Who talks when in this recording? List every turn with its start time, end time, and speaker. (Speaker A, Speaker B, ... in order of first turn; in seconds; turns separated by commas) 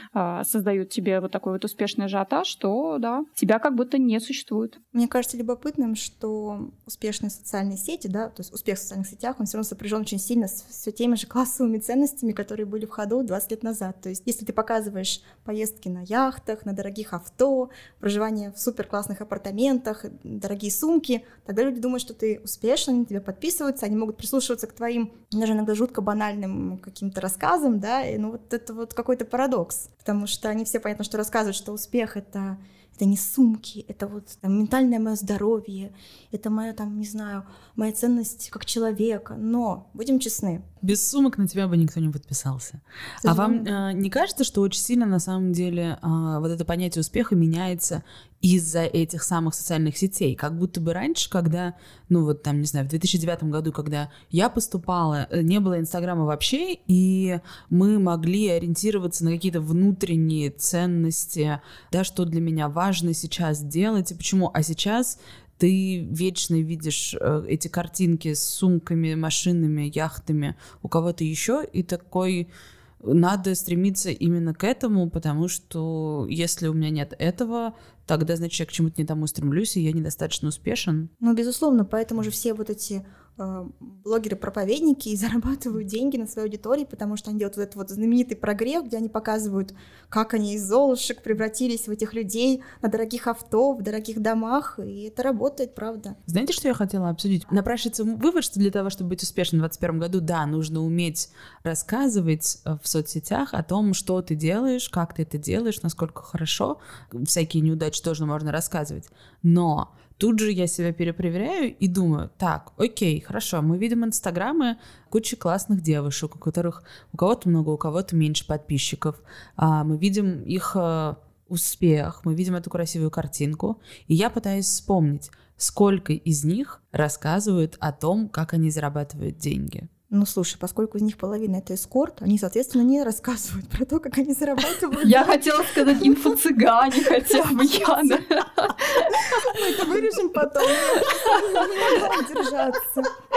Speaker A: 0.1-4.8, Speaker B: 4.9-40.7, Speaker C: 40.8-72.5, Speaker B: 43.2-43.7, Speaker C: 73.0-81.1, Speaker B: 81.2-96.2, Speaker C: 96.3-129.9, Speaker B: 130.1-136.4, Speaker A: 135.0-139.6, Speaker B: 137.1-138.2, Speaker B: 139.2-143.1, Speaker A: 141.0-141.9